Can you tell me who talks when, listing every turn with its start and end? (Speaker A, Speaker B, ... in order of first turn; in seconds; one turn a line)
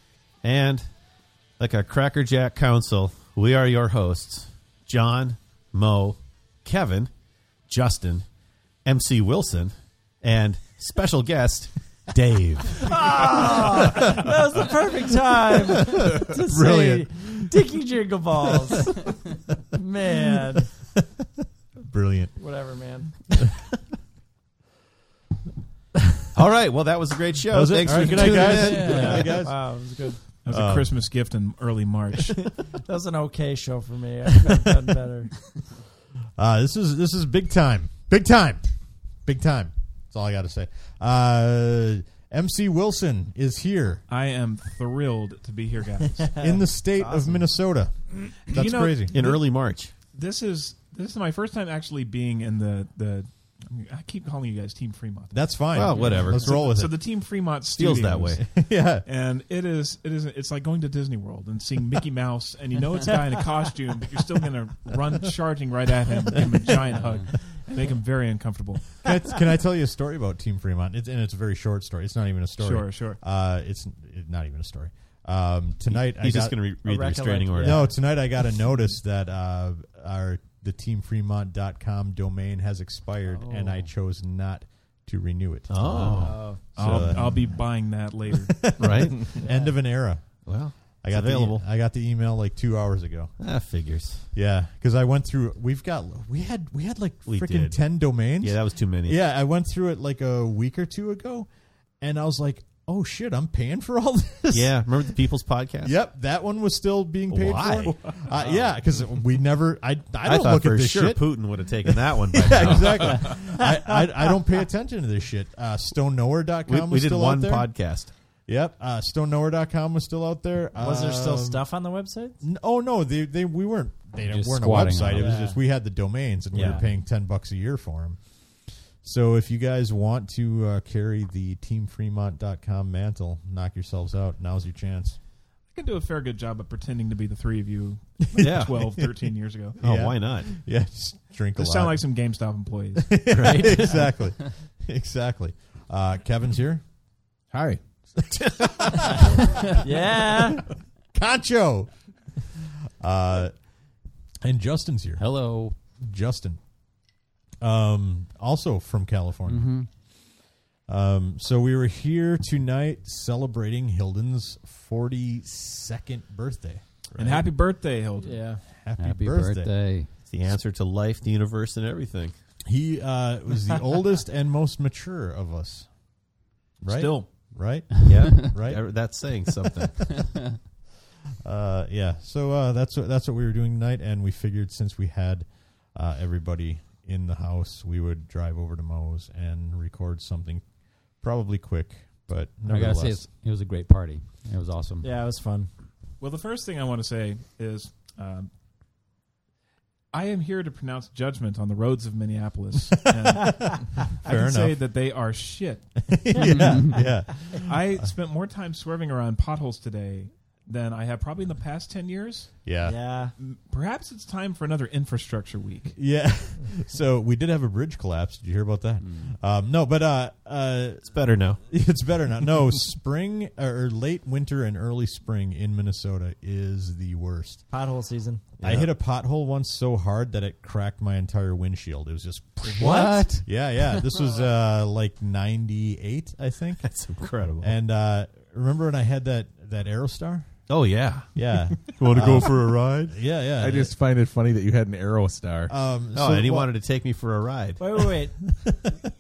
Speaker A: 0.4-0.8
Speaker A: 1.6-7.1
Speaker A: 7.7-8.3
Speaker A: 8.8-13.0
Speaker B: 12.9-19.0
Speaker C: 15.9-17.5
Speaker B: 19.7-20.7
Speaker C: 21.8-22.4
Speaker B: 22.4-23.2
Speaker A: 26.3-29.4
Speaker C: 27.5-31.0
Speaker D: 28.6-29.1
Speaker B: 28.7-30.2
Speaker E: 30.4-32.6
Speaker B: 32.7-35.4
Speaker C: 36.4-38.6
Speaker C: 39.2-44.0
Speaker E: 44.1-46.4
Speaker B: 46.4-47.5
Speaker C: 46.4-49.2
Speaker E: 48.5-49.4
Speaker A: 49.1-49.9
Speaker E: 50.1-58.5
Speaker C: 55.3-57.0
Speaker A: 55.7-56.6
Speaker A: 57.8-58.4
Speaker C: 58.4-59.1
Speaker E: 59.0-69.0
Speaker D: 67.0-67.3
Speaker C: 69.0-76.6
Speaker E: 72.6-73.2
Speaker A: 75.9-77.9
Speaker B: 76.8-78.0
Speaker C: 77.6-87.6
Speaker B: 83.3-83.8
Speaker A: 85.7-87.2
Speaker D: 85.8-86.4
Speaker E: 85.9-89.4
Speaker B: 86.2-86.6
Speaker C: 88.3-90.5
Speaker A: 88.8-89.4
Speaker B: 89.4-89.8
Speaker A: 90.5-91.6
Speaker C: 91.0-93.4
Speaker A: 93.4-94.3
Speaker C: 94.3-101.5
Speaker A: 97.3-99.2
Speaker C: 102.0-105.2
Speaker A: 104.5-106.0
Speaker C: 105.8-117.9
Speaker A: 107.3-108.5
Speaker E: 107.8-108.6
Speaker A: 110.2-113.4
Speaker A: 116.7-118.1
Speaker C: 118.5-121.6
Speaker B: 120.8-122.4
Speaker C: 122.4-135.2
Speaker D: 124.3-125.4
Speaker B: 125.0-125.7
Speaker B: 126.5-126.9
Speaker E: 135.7-139.8
Speaker A: 138.4-138.9
Speaker C: 138.4-139.2
Speaker C: 139.8-142.0
Speaker A: 139.8-140.5
Speaker E: 141.6-143.2
Speaker C: 143.0-146.8
Speaker A: 143.3-144.0
Speaker F: 147.5-147.8
Speaker C: 148.3-149.4
Speaker B: 149.8-150.6
Speaker C: 151.1-152.0
Speaker C: 152.6-153.6
Speaker C: 154.4-156.6
Speaker D: 155.2-155.8
Speaker C: 157.6-159.9
Speaker D: 159.5-159.9
Speaker C: 160.9-166.8
Speaker A: 167.1-167.5
Speaker E: 167.2-168.5
Speaker B: 168.2-168.6
Speaker C: 168.7-169.7
Speaker D: 169.0-170.1
Speaker A: 170.3-172.3
Speaker C: 172.7-176.0
Speaker C: 176.8-179.4
Speaker A: 176.9-177.3
Speaker E: 176.9-177.3
Speaker A: 178.1-180.3
Speaker C: 181.4-190.7
Speaker C: 191.2-193.2
Speaker D: 192.7-195.1
Speaker B: 195.0-195.7
Speaker E: 196.2-198.5
Speaker E: 200.1-205.9
Speaker C: 204.2-204.8
Speaker C: 206.0-208.1
Speaker B: 206.3-207.2
Speaker D: 206.4-207.1
Speaker E: 207.6-212.6
Speaker C: 212.7-213.0
Speaker B: 212.8-213.3
Speaker E: 213.4-216.0
Speaker C: 215.9-221.2
Speaker D: 219.0-219.4
Speaker A: 221.1-221.6
Speaker C: 221.7-227.6
Speaker B: 227.7-228.4
Speaker A: 228.6-228.9
Speaker C: 228.6-236.9
Speaker B: 232.6-233.4
Speaker D: 232.9-233.4
Speaker A: 236.8-237.7
Speaker C: 237.6-240.7
Speaker A: 240.7-243.2
Speaker C: 241.3-243.9
Speaker F: 243.6-245.7
Speaker C: 245.7-246.7
Speaker A: 246.1-248.0
Speaker B: 247.8-248.4
Speaker C: 248.7-249.1